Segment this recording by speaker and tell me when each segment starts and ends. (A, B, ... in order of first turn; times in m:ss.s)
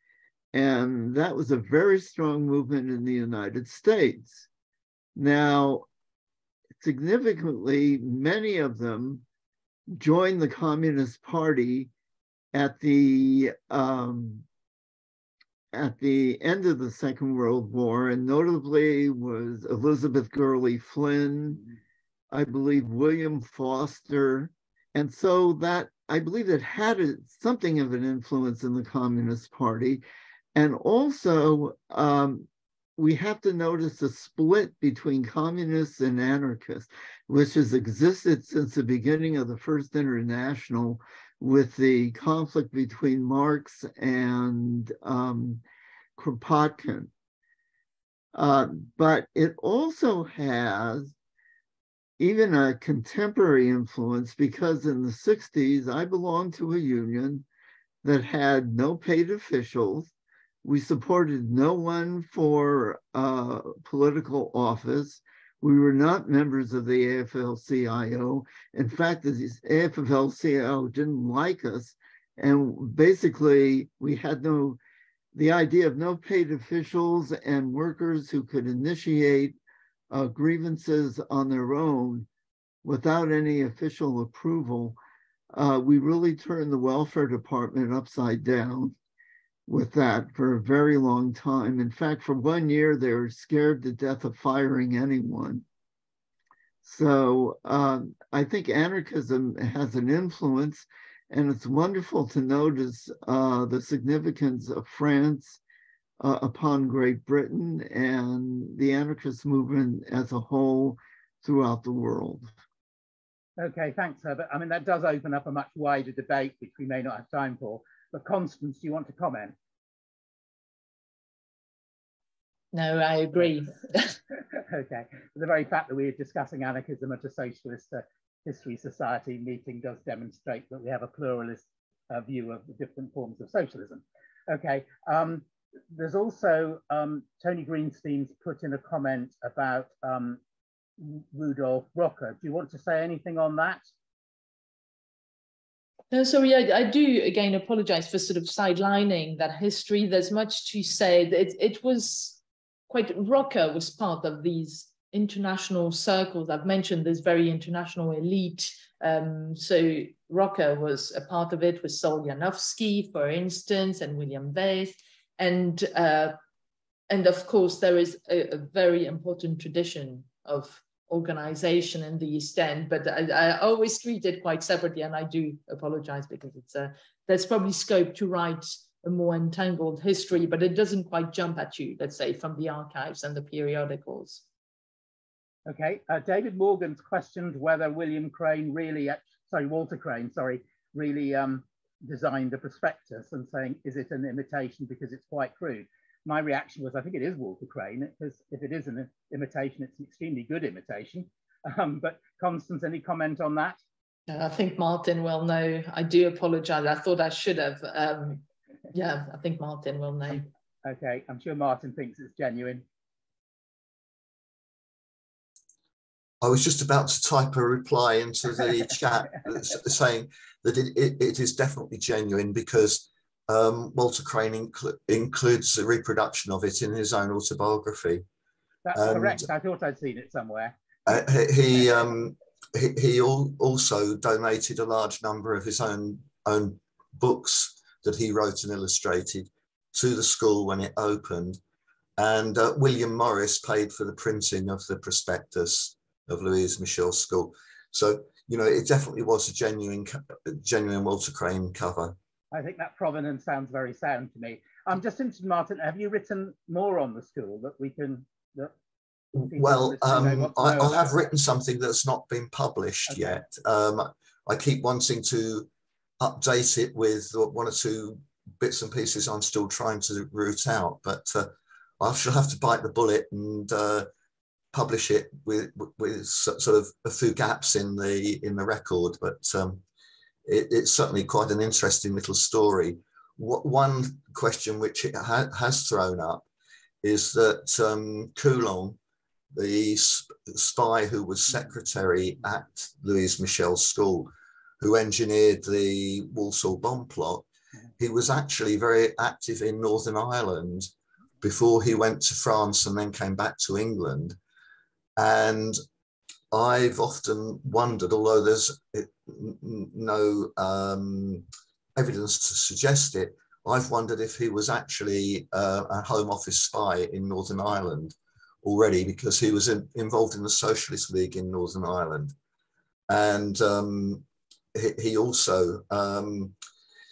0:00.5-0:04.4 A
0:05.2-0:05.9 A
0:06.8-0:09.2 A
0:09.9-0:11.9 A
0:12.5-0:14.4 A
0:15.7-0:21.6 A
0:22.3-0:30.0 A
0:30.5-0:45.6 A
0:46.2-0:47.1 A
0:48.3-0:51.1 A
0:52.2-0:57.4 A
0:58.0-1:00.1 A
1:00.6-1:14.8 A
1:15.3-1:19.5 A
1:20.1-1:22.3 A
1:22.8-1:25.0 A
1:25.5-1:28.9 A
1:29.7-1:35.6 A
1:36.8-1:45.6 A
1:46.2-1:52.4 A
1:53.6-1:59.5 B
2:02.7-2:04.2 C
2:04.6-2:20.4 B
2:21.0-2:23.8 B
2:26.1-2:46.4 C
2:47.1-3:04.4 C
3:05.7-3:23.8 B
3:24.3-3:30.4 C
3:30.8-3:32.8 B
3:36.4-3:48.2 D
3:48.8-3:50.8 B
3:48.9-3:49.5 D
3:51.1-4:01.6 D
4:02.2-4:12.2 D
4:12.5-4:18.7 B
4:19.3-4:25.7 D
4:19.4-4:21.2 B
4:23.1-4:23.4 B
4:26.2-4:34.1 D
4:34.7-4:39.8 D
4:40.4-4:46.4 D
4:47.0-4:49.0 D
4:49.5-4:57.4 D
4:58.0-5:00.9 D
5:01.4-5:04.4 D
5:05.2-5:05.8 D
5:06.5-5:22.3 D
5:23.1-5:26.5 D